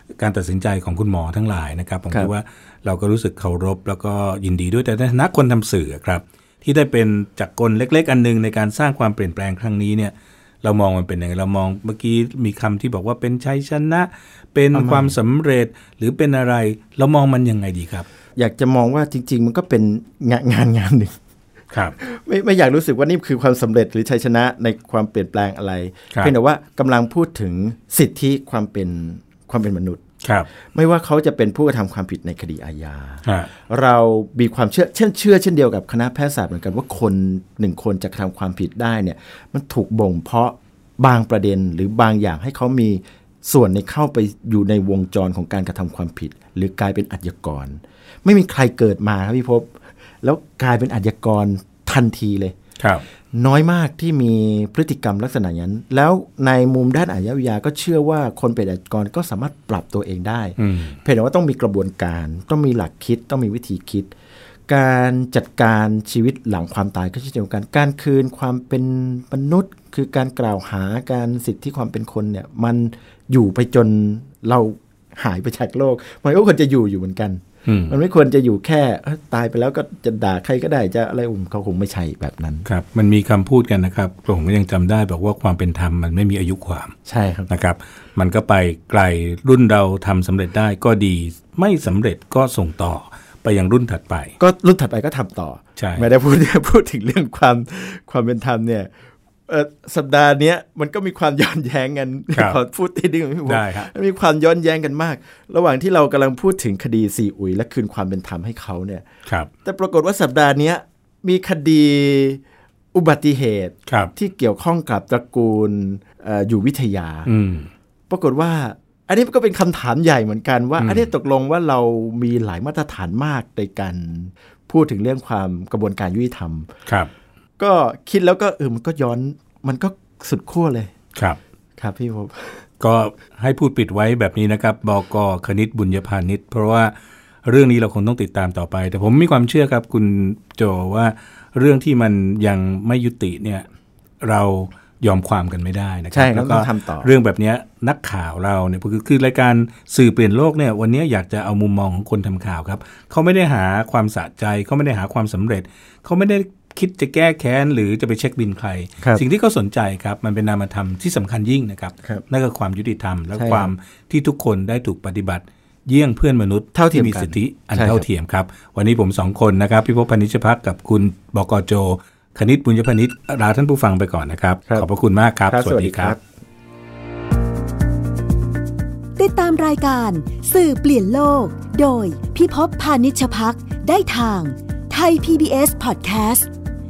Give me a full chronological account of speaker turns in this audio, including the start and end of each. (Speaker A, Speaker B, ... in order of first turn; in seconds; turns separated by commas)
Speaker A: 0.2-18.1, Speaker B: 14.7-15.2, Speaker B: 18.4-21.1, Speaker B: 22.0-30.0, Speaker A: 30.2-30.5, Speaker B: 30.7-49.7, Speaker B: 50.2-52.5, Speaker A: 52.8-53.0, Speaker B: 53.3-64.1, Speaker A: 60.6-61.0, Speaker B: 64.7-82.7, Speaker A: 77.7-78.0, Speaker A: 82.7-86.9, Speaker B: 87.1-87.5, Speaker A: 87.5-94.4, Speaker B: 94.4-98.9, Speaker A: 95.8-96.1, Speaker B: 99.5-109.0, Speaker A: 103.5-103.9, Speaker B: 109.7-112.4, Speaker B: 112.9-117.3, Speaker A: 113.9-114.1, Speaker A: 117.3-117.7, Speaker B: 118.1-126.7, Speaker A: 120.8-121.1, Speaker B: 127.6-130.9, Speaker B: 131.8-132.6, Speaker A: 132.8-136.9, Speaker A: 137.4-143.7, Speaker A: 144.2-176.2, Speaker B: 146.1-147.1, Speaker B: 163.3-163.7, Speaker B: 166.7-168.1, Speaker B: 175.5-176.2, Speaker C: 179.2-186.5